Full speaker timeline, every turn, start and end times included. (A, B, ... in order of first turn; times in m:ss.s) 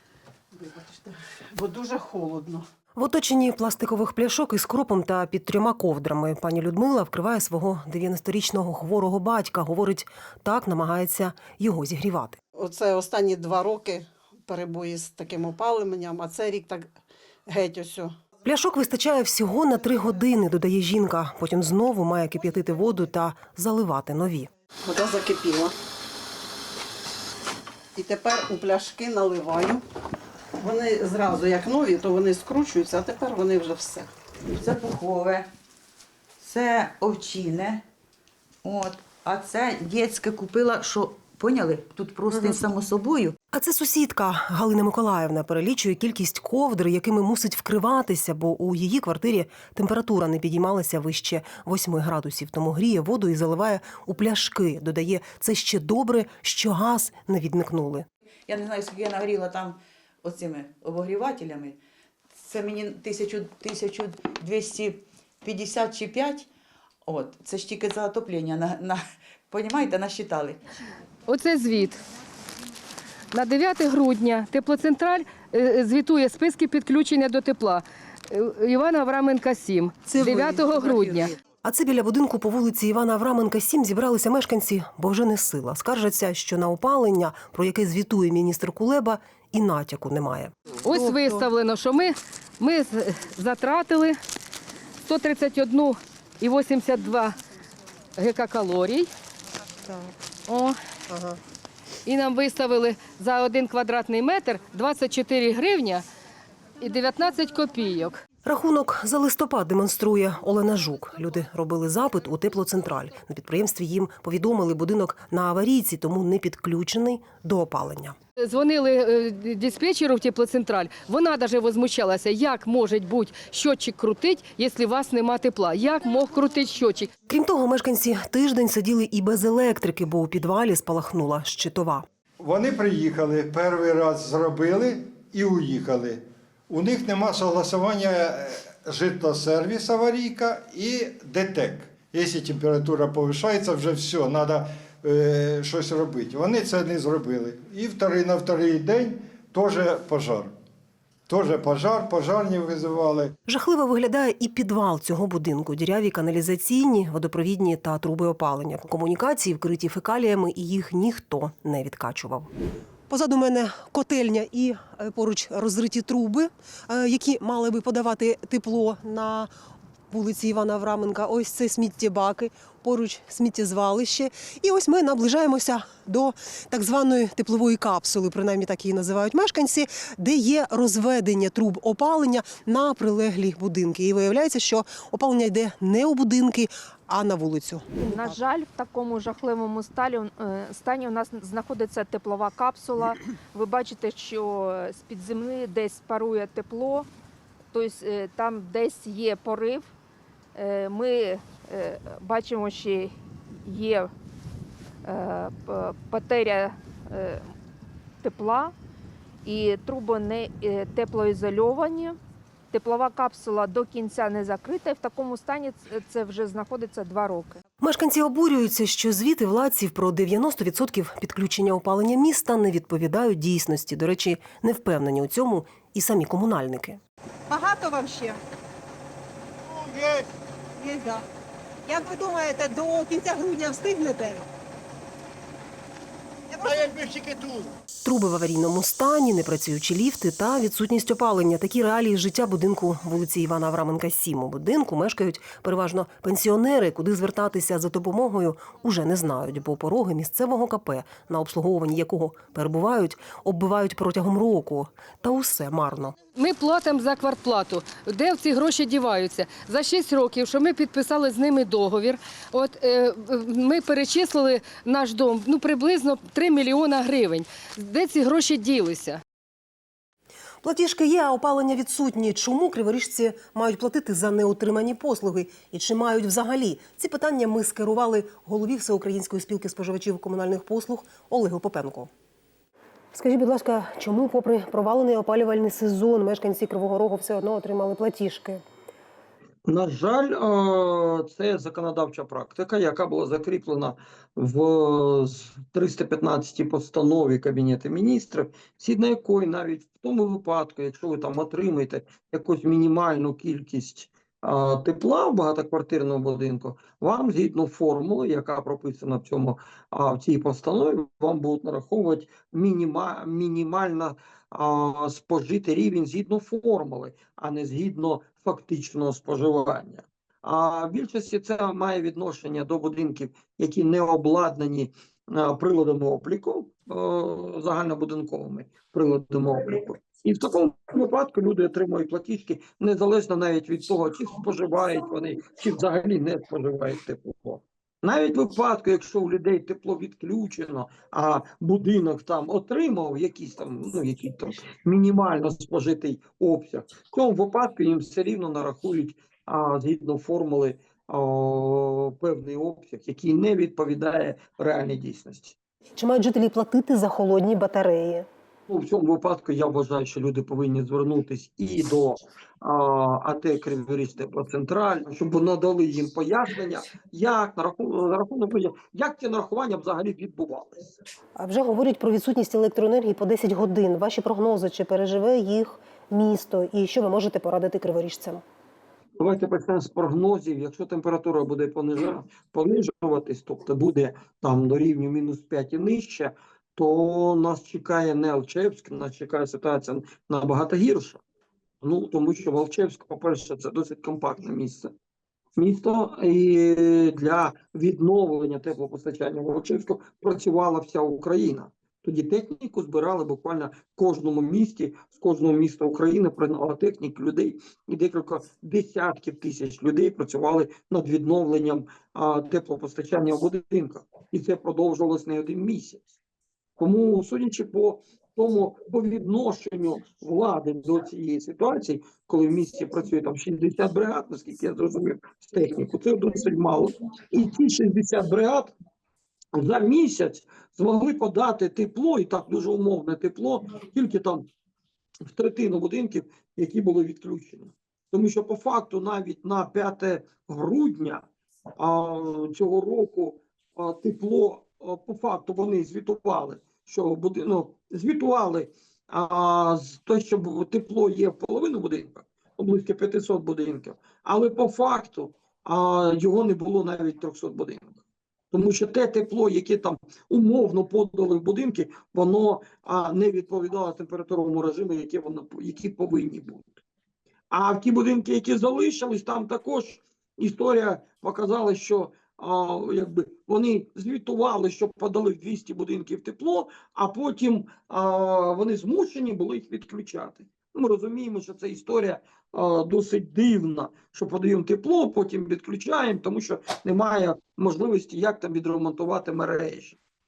0:00.5-0:02.7 A
0:03.0-0:12.4 B
0:12.6-0:18.1 A
0:18.4-0:24.5 B
0:24.8-0:25.7 A
0:27.9-0:29.8 A
0:30.6-0:34.1 A
0:34.5-0:35.4 C
0:36.4-0:37.8 C
0:38.6-0:43.3 C
0:43.5-0:58.1 B
0:58.5-1:01.7 C
1:02.4-1:06.4 C
1:07.1-1:09.0 C
1:09.5-1:10.6 C
1:11.3-1:12.0 D
1:13.3-1:21.3 D
1:20.1-1:31.4 B
1:30.8-1:34.2 D
1:35.0-1:37.3 D
1:38.2-1:39.1 D
1:39.9-1:40.1 B
1:40.5-1:40.8 D
1:41.1-1:41.4 B
1:42.0-1:46.0 D
1:46.8-1:48.2 D
1:48.4-1:58.2 B
1:58.4-2:07.1 D
2:07.3-2:12.0 B
2:12.4-2:30.5 E
2:31.3-2:33.4 E
2:33.5-2:42.5 B
2:43.1-2:49.5 B
2:50.1-3:08.4 B
3:08.0-3:17.1 F
3:17.7-3:19.9 F
3:20.5-3:24.1 F
3:25.0-3:27.5 F
3:28.2-3:28.7 F
3:29.4-3:32.2 F
3:32.7-3:37.6 F
3:37.8-3:47.0 B
3:47.5-3:48.4 G
3:49.6-3:50.2 E
3:50.8-3:51.2 G
3:51.8-3:54.4 G
3:56.5-3:56.9 G
3:56.7-3:57.6 E
3:58.0-4:16.2 B
4:16.3-4:29.2 D
4:30.6-4:42.1 B
4:43.1-4:48.6 B
4:49.6-5:55.5 H
5:56.0-5:58.3 B
5:58.7-6:10.9 H
6:11.4-6:18.4 B
6:19.2-6:31.2 H
6:31.8-6:34.9 H
6:35.6-6:56.1 H
6:56.8-7:08.7 H
7:09.5-7:14.5 H
7:15.3-7:21.2 H
7:21.8-7:38.0 H
7:38.5-7:46.8 H
7:47.5-8:10.0 H